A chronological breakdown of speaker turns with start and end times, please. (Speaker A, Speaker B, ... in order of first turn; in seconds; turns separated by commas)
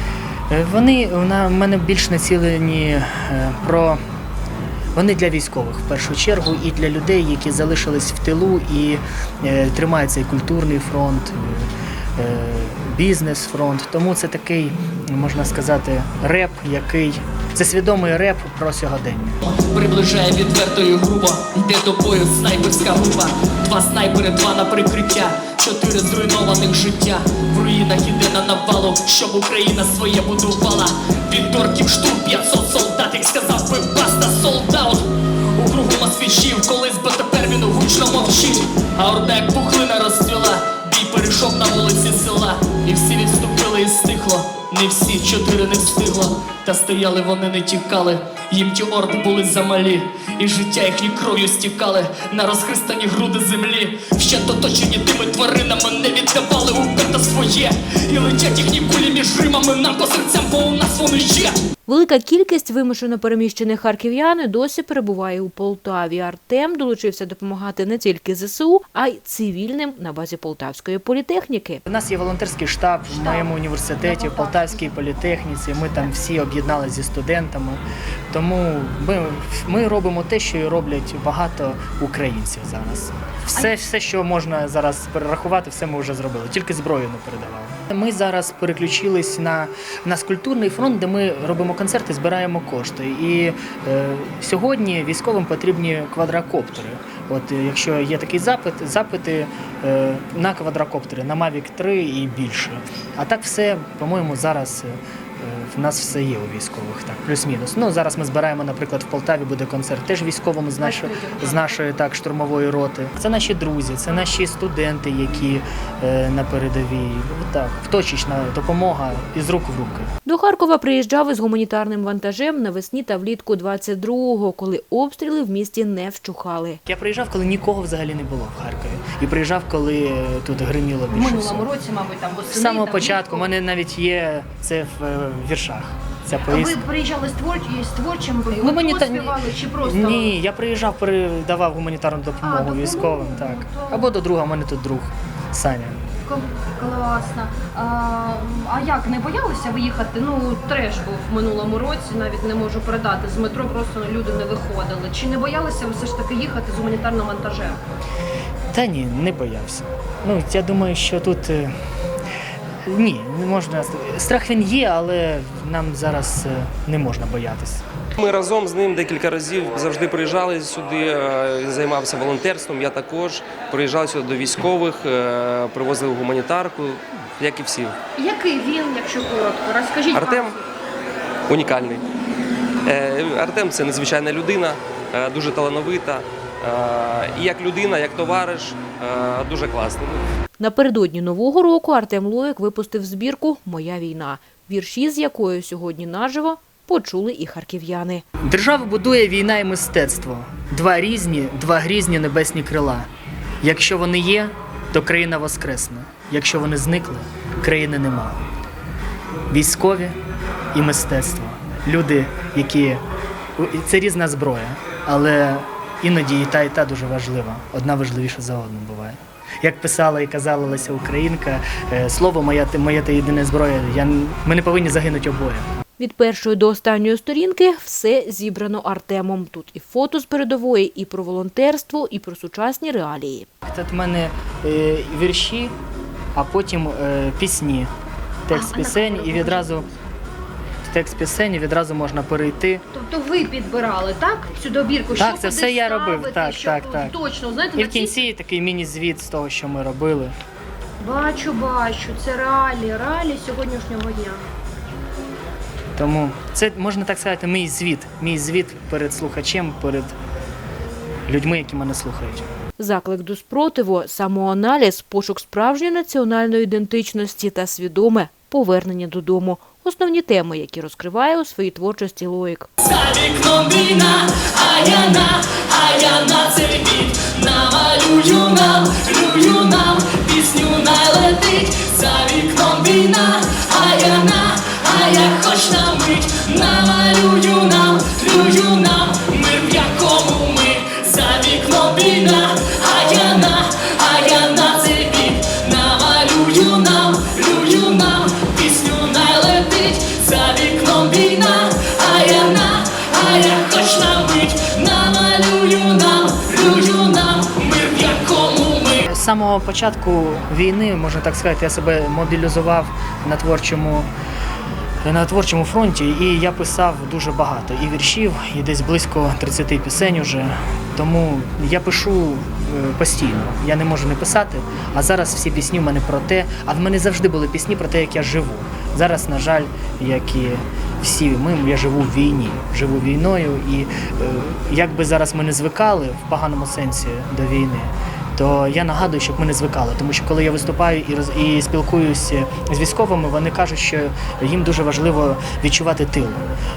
Speaker A: 0.5-4.0, Speaker A: 4.9-19.4, Speaker B: 19.4-61.5, Speaker C: 61.9-71.8, Speaker A: 71.8-120.1, Speaker D: 73.1-74.9, Speaker D: 110.8-111.8, Speaker C: 120.2-126.8, Speaker A: 126.8-131.7, Speaker D: 131.1-133.5, Speaker A: 132.5-136.8, Speaker D: 136.5-140.3, Speaker A: 138.5-146.0, Speaker D: 142.4-144.1, Speaker D: 146.2-157.8, Speaker A: 158.7-161.7, Speaker A: 162.8-167.8, Speaker E: 168.2-177.9, Speaker D: 178.2-180.6, Speaker E: 180.1-180.6, Speaker E: 181.5-182.0, Speaker E: 182.8-190.2, Speaker C: 190.6-198.2, Speaker A: 198.4-203.1, Speaker A: 203.6-208.4, Speaker A: 209.5-210.2, Speaker A: 210.7-213.0, Speaker A: 213.6-225.7, Speaker C: 226.0-233.5, Speaker A: 233.6-235.7, Speaker A: 236.3-237.9, Speaker A: 238.5-239.9, Speaker D: 238.5-239.9, Speaker A: 240.8-242.8, Speaker D: 242.9-248.2, Speaker A: 245.2-247.1, Speaker A: 247.8-250.3, Speaker D: 251.0-254.4, Speaker A: 256.0-260.1, Speaker A: 261.3-262.5, Speaker C: 262.8-272.7, Speaker B: 272.8-309.0, Speaker A: 309.0-314.1, Speaker A: 315.0-346.4